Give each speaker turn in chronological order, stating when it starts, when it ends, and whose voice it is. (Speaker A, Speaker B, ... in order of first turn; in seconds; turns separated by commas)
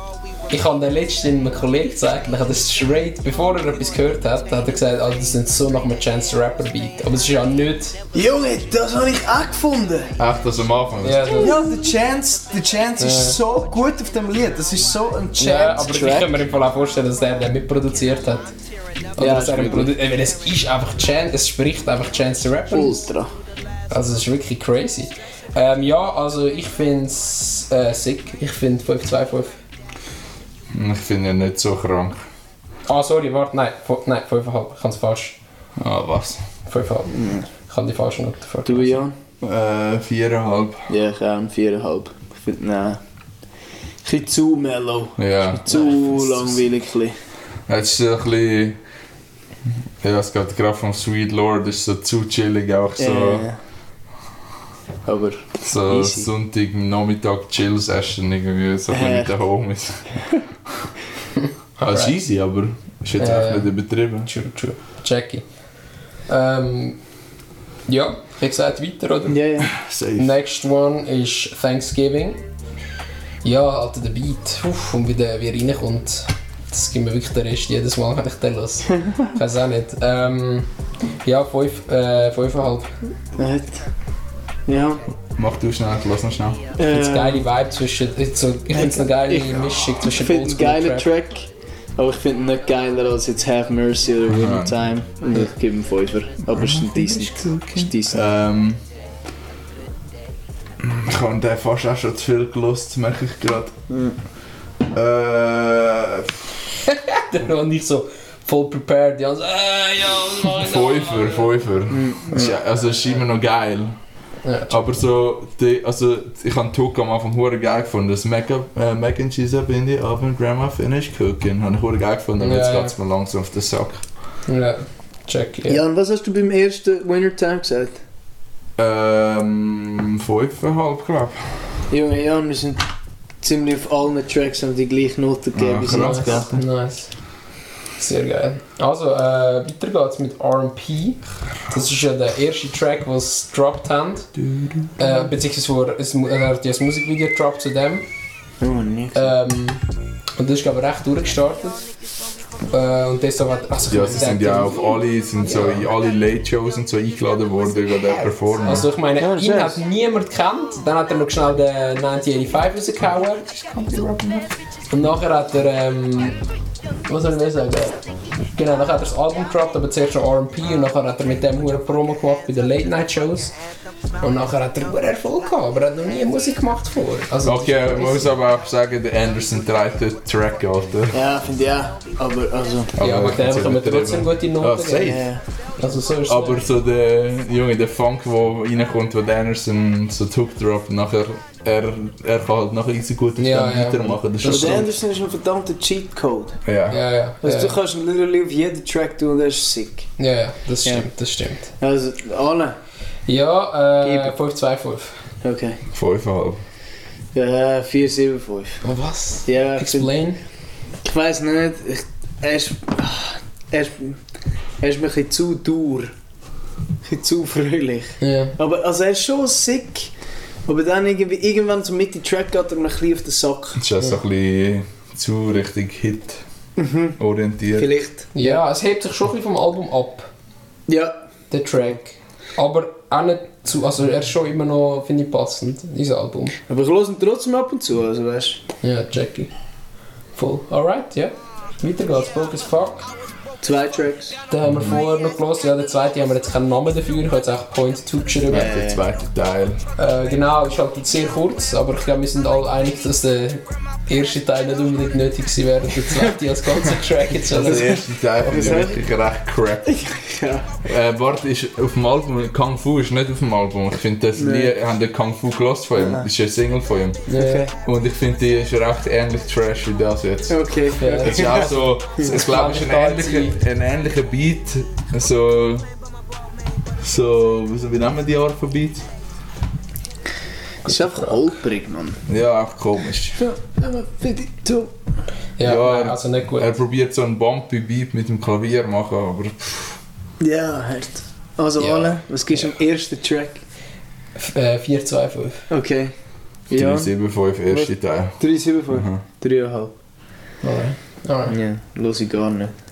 Speaker A: 0.5-8.0, Speaker B: 8.1-10.2, Speaker C: 10.2-11.4, Speaker A: 11.0-11.6, Speaker B: 11.4-16.3, Speaker A: 13.0-13.4, Speaker A: 15.4-18.5, Speaker A: 19.1-23.1, Speaker B: 19.2-19.9, Speaker B: 22.7-23.3, Speaker A: 23.9-29.6, Speaker C: 30.7-32.2, Speaker A: 32.9-35.4, Speaker C: 35.8-36.4, Speaker A: 36.7-39.0, Speaker B: 37.1-37.5, Speaker B: 38.6-39.1, Speaker C: 39.4-40.9, Speaker B: 40.9-43.0, Speaker B: 44.0-47.1, Speaker C: 45.2-45.9, Speaker C: 47.7-48.8, Speaker C: 50.0-53.5, Speaker B: 53.0-53.6, Speaker B: 55.0-56.3, Speaker C: 55.6-60.9, Speaker B: 58.9-59.3, Speaker A: 61.8-62.1, Speaker C: 61.8-64.3, Speaker A: 63.2-65.8, Speaker A: 66.2-67.0, Speaker A: 67.9-69.4, Speaker B: 69.3-69.7, Speaker C: 69.6-70.3, Speaker A: 70.2-72.4, Speaker A: 73.4-80.7, Speaker A: 81.2-83.0, Speaker B: 83.4-83.9, Speaker B: 84.7-85.0, Speaker C: 85.2-86.6, Speaker B: 86.8-87.4, Speaker A: 86.9-91.1, Speaker B: 88.8-98.3, Speaker C: 94.2-94.8, Speaker C: 96.5-98.8, Speaker C: 100.8-103.8, Speaker B: 103.9-104.2, Speaker C: 104.9-106.5, Speaker A: 107.0-111.5, Speaker C: 110.6-114.0, Speaker B: 111.9-112.5, Speaker A: 114.4-115.0, Speaker C: 114.7-124.0, Speaker A: 122.4-122.9, Speaker A: 124.5-125.8, Speaker B: 125.7-128.0, Speaker C: 128.8-131.7, Speaker B: 131.9-132.8, Speaker B: 133.4-136.6, Speaker C: 135.5-136.6, Speaker A: 135.9-137.4, Speaker A: 138.0-144.3, Speaker C: 144.4-144.9, Speaker A: 145.0-148.1, Speaker B: 148.6-149.3, Speaker A: 149.1-149.8, Speaker A: 150.4-151.9, Speaker A: 152.7-155.9, Speaker C: 153.9-158.9, Speaker A: 158.6-163.4, Speaker B: 159.2-159.8, Speaker C: 163.5-164.5, Speaker A: 164.9-166.4, Speaker A: 167.1-168.0, Speaker A: 168.5-173.5, Speaker A: 174.2-178.3, Speaker C: 177.4-181.2, Speaker B: 181.1-182.9, Speaker C: 183.0-185.4, Speaker A: 183.0-186.6, Speaker B: 185.0-185.4, Speaker C: 186.2-194.9, Speaker A: 193.4-194.8, Speaker B: 194.4-196.6, Speaker C: 196.6-197.0, Speaker A: 196.9-197.8, Speaker B: 197.4-200.1, Speaker A: 200.2-201.7, Speaker B: 201.8-202.8, Speaker A: 203.3-205.2, Speaker B: 204.0-204.3, Speaker B: 205.4-205.8, Speaker C: 205.9-206.6, Speaker B: 207.3-208.8, Speaker A: 208.8-210.4, Speaker B: 209.4-210.1, Speaker B: 211.0-214.2, Speaker B: 214.8-216.1, Speaker B: 217.0-220.1, Speaker A: 218.2-218.5, Speaker B: 220.7-223.8, Speaker C: 223.8-226.4, Speaker B: 226.8-227.2, Speaker C: 227.2-227.9, Speaker B: 227.7-228.6, Speaker A: 228.3-230.3, Speaker B: 230.9-231.2, Speaker A: 231.5-236.6, Speaker B: 236.7-238.6, Speaker A: 238.8-239.5, Speaker A: 240.3-243.1, Speaker B: 243.6-244.4, Speaker A: 244.5-248.7, Speaker C: 244.6-245.0, Speaker C: 248.5-249.8, Speaker B: 248.5-249.1, Speaker A: 249.9-258.0, Speaker C: 257.5-260.1, Speaker B: 257.6-259.0, Speaker B: 259.9-260.8, Speaker C: 260.8-275.9, Speaker B: 264.4-264.7, Speaker A: 267.3-267.6, Speaker B: 267.3-267.7, Speaker B: 270.5-272.3, Speaker A: 271.0-273.6, Speaker C: 277.0-279.0, Speaker B: 280.9-282.2, Speaker A: 280.9-281.3, Speaker C: 282.3-283.4, Speaker B: 283.4-284.9, Speaker A: 285.6-286.7, Speaker C: 285.6-290.0, Speaker B: 290.4-293.6, Speaker A: 291.8-292.6, Speaker A: 294.4-295.6, Speaker B: 295.7-296.1, Speaker B: 296.7-299.9, Speaker C: 296.7-299.2, Speaker A: 300.6-301.6, Speaker B: 301.5-302.7